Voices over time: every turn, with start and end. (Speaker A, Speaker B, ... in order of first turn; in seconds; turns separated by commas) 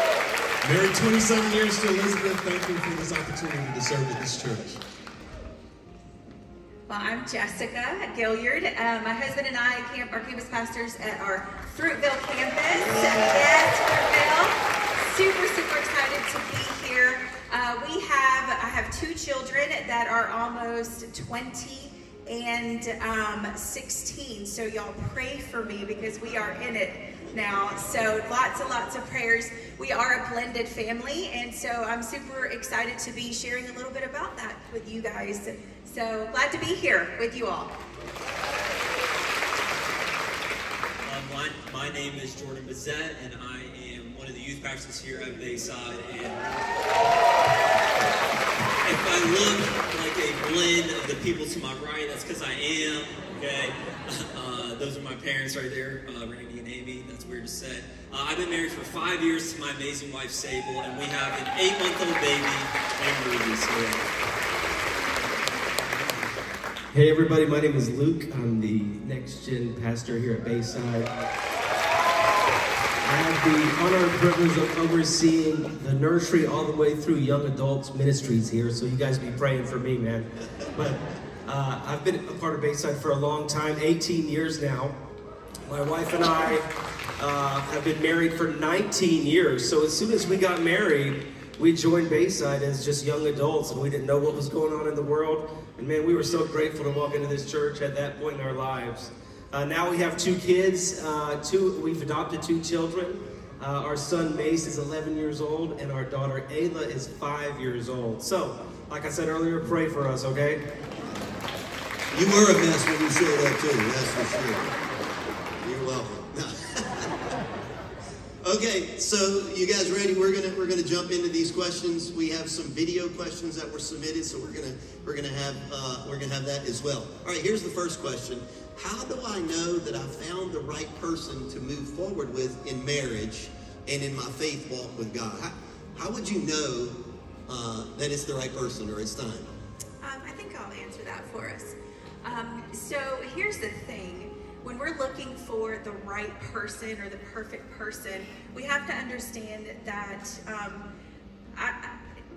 Speaker A: 0.6-4.8, Speaker B: 6.9-37.7, Speaker C: 12.7-13.4, Speaker D: 41.0-46.6, Speaker D: 48.8-64.1, Speaker E: 66.9-71.1, Speaker E: 73.0-85.0, Speaker E: 85.7-110.6, Speaker C: 112.1-114.7, Speaker C: 115.6-117.1, Speaker C: 118.4-137.0, Speaker C: 137.5-139.5, Speaker B: 140.0-150.9, Speaker B: 151.5-151.9